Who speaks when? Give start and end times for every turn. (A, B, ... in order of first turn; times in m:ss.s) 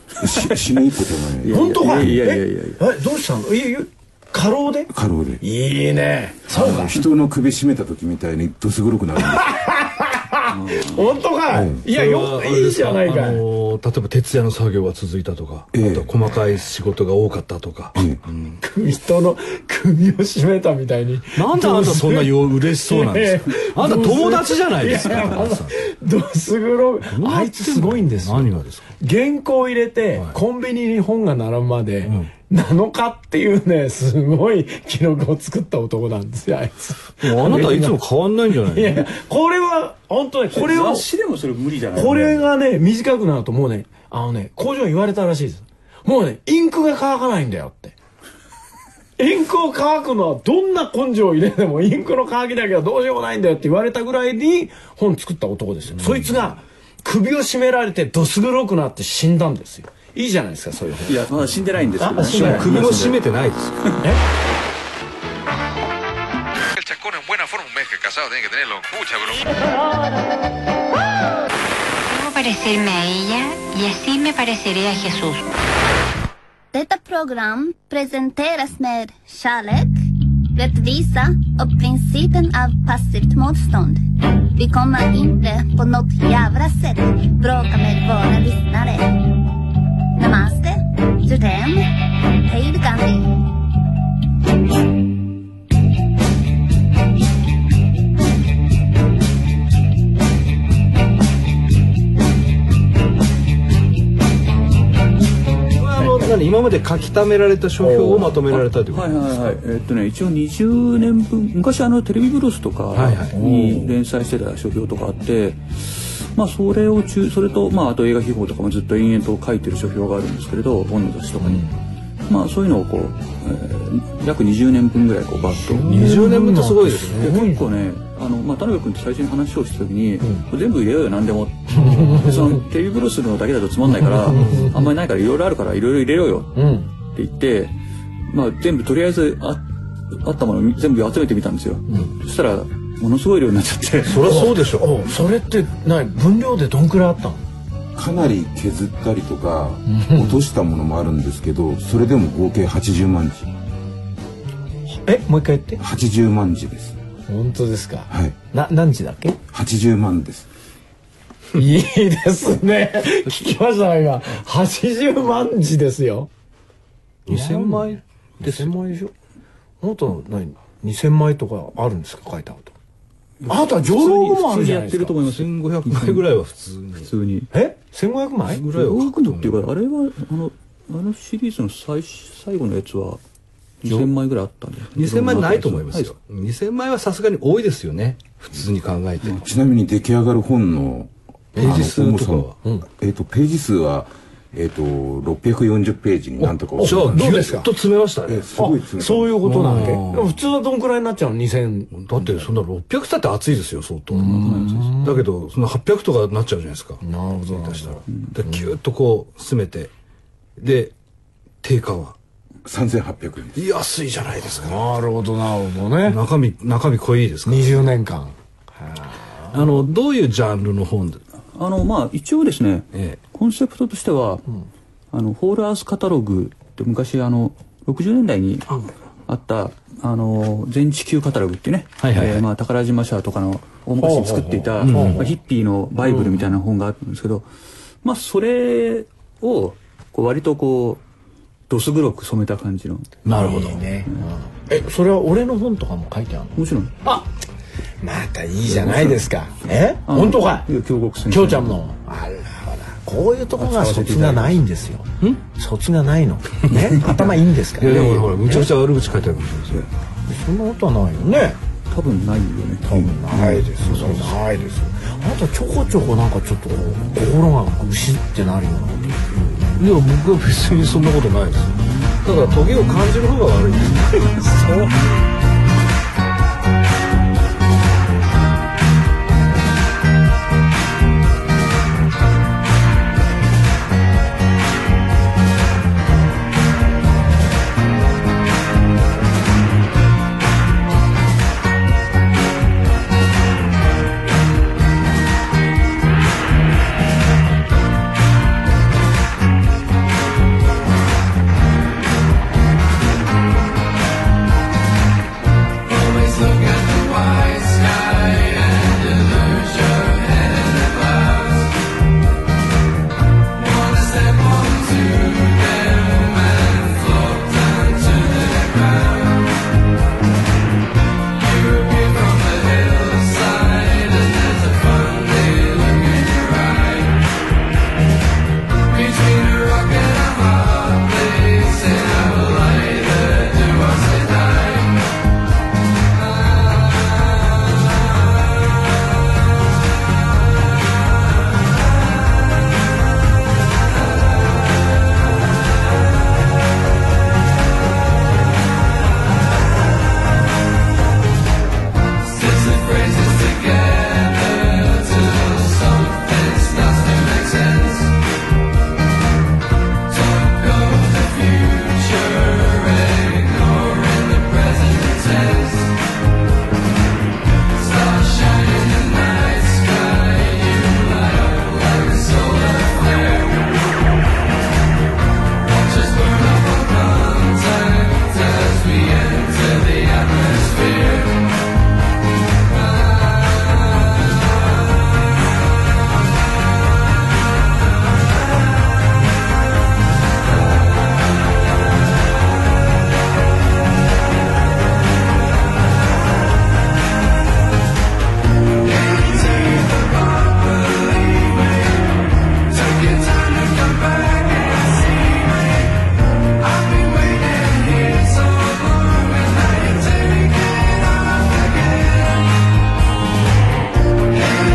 0:00.2-0:02.2 A
0:00.2-0:00.5 B
0:01.4-0:02.8 B
0:01.5-0:07.0 C
0:04.9-0:05.4 A
0:06.5-0:09.6 A
0:09.2-0:13.4 C
0:10.5-0:11.1 B
0:11.5-0:11.8 A
0:11.9-0:18.6 D
0:15.7-0:16.2 A
0:18.0-0:18.2 A
0:18.6-0:38.0 C
0:21.4-0:25.7 D
0:27.1-0:28.9 D
0:37.2-0:39.1 D
0:38.5-0:41.1 C
0:40.5-0:42.4 B
0:42.0-0:48.0 C
0:49.2-1:01.2 C
0:56.0-0:56.4 D
1:01.1-1:03.2 B
1:02.0-1:02.8 C
1:02.3-1:03.8 D
1:06.8-1:09.6 E
1:12.1-1:15.4 F
1:16.7-1:20.0 G
1:20.6-1:24.0 G
1:24.6-1:29.3 G
1:30.2-1:31.9 G
1:32.4-1:33.4 G
1:45.8-1:49.2 D
1:47.8-1:48.4 C
1:48.5-2:01.7 B
1:52.9-1:53.4 D
1:53.3-1:53.9 C
2:01.4-2:01.7 C
2:02.3-2:05.9 B
2:05.5-2:07.7 C
2:05.9-2:07.3 D
2:07.1-2:17.8 B
2:11.7-2:12.2 D
2:11.8-2:12.6 C
2:14.0-2:14.8 C
2:14.3-2:14.8 D
2:16.6-2:16.9 C
2:18.3-2:19.6 B
2:20.2-2:24.4 B
2:24.1-2:25.1 D
2:24.1-2:27.4 C
2:28.0-2:33.5 A
2:29.9-2:30.4 C
2:34.9-2:35.8 C
2:35.8-2:37.0 A
2:37.3-2:39.4 C
2:38.1-2:38.4 A
2:39.5-2:40.5 A
2:41.6-2:46.3 C
2:47.3-2:48.7 D
2:47.3-2:49.1 C
2:49.8-2:52.7 C
2:53.4-2:56.3 B
2:53.5-2:55.2 C
2:55.2-2:57.1 D
2:57.0-2:57.5 B
2:57.5-2:58.7 C
2:58.5-2:59.7 D
2:58.7-3:03.2 B
3:03.8-3:06.1 B
3:05.0-3:09.4 D
3:09.3-3:17.5 A
3:11.6-3:11.9 C
3:11.6-3:12.6 D
3:16.4-3:18.5 D
3:16.8-3:17.7 C
3:18.3-3:19.6 A
3:18.6-3:22.5 C
3:19.4-3:20.4 D
3:21.9-3:29.9 D
3:24.1-3:25.3 C
3:24.4-3:24.8 B
3:27.0-3:28.8 C
3:30.6-3:31.0 D
3:31.6-3:32.2 D
3:32.6-3:33.6 A
3:33.6-3:34.8 D
3:34.5-3:36.2 C
3:36.1-3:37.8 D
3:37.4-3:39.6 C
3:39.5-3:41.2 D
3:41.6-3:44.4 B
3:42.9-3:43.2 D
3:45.1-3:57.5 B
3:52.0-3:52.4 D
3:54.0-3:55.3 C
3:54.8-3:55.2 D
3:56.0-3:56.5 C
3:58.0-4:01.0 B
4:01.7-4:03.1 B
4:03.2-4:03.8 D
4:03.3-4:07.3 C
4:06.6-4:06.9 B
4:08.0-4:10.7 C
4:08.8-4:09.2 B
4:10.1-4:11.8 B
4:11.3-4:18.7 C
4:13.6-4:14.6 B
4:17.8-4:19.9 D
4:20.3-4:21.6 C
4:21.9-4:24.3 B
4:22.8-4:29.9 C
4:29.8-4:34.9 D